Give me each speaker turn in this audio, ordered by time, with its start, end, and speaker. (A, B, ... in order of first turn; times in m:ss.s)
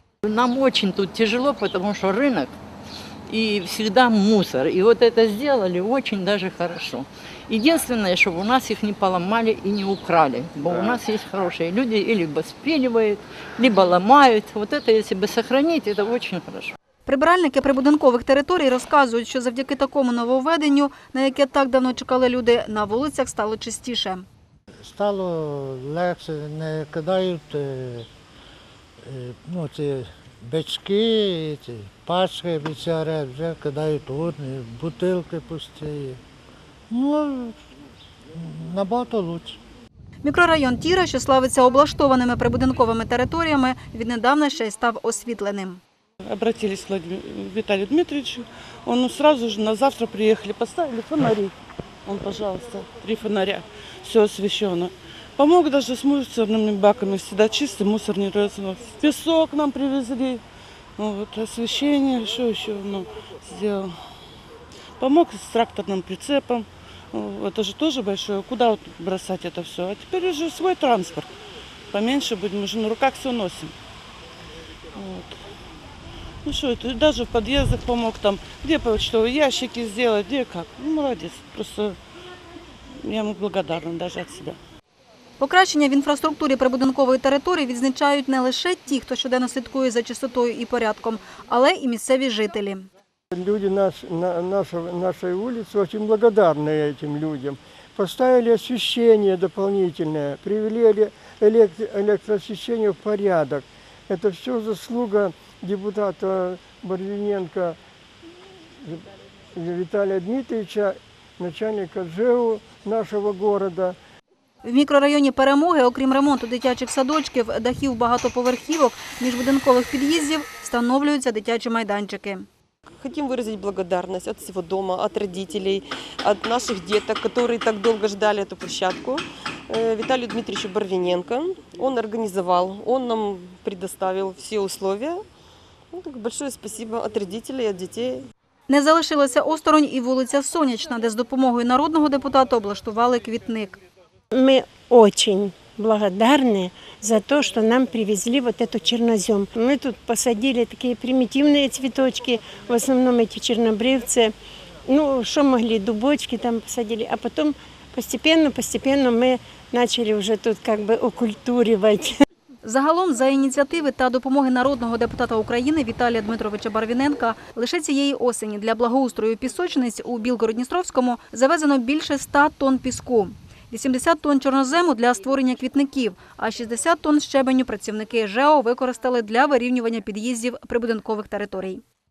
0:00.2-0:02.5 A
0:03.3-0:16.7 A
0:17.1-0:24.2 B
0:24.8-0:28.1 C
0:29.1-0:36.2 C
0:36.9-0:37.6 C
0:38.4-0:39.6 C
0:40.2-0:45.8 B
0:46.3-0:51.5 D
0:52.1-1:00.4 D
1:01.0-1:03.9 D
1:05.0-1:11.3 D
1:11.9-1:13.7 D
1:15.0-1:15.4 D
1:16.5-1:22.0 D
1:23.0-1:24.6 D
1:25.4-1:32.9 B
1:33.3-1:47.8 E
1:49.6-1:54.0 E
1:54.6-2:02.5 B
2:03.0-2:15.2 F
2:15.9-2:18.2 F
2:18.7-2:23.8 B
2:24.4-2:34.3 G
2:34.9-2:42.1 G
2:42.6-3:01.8 B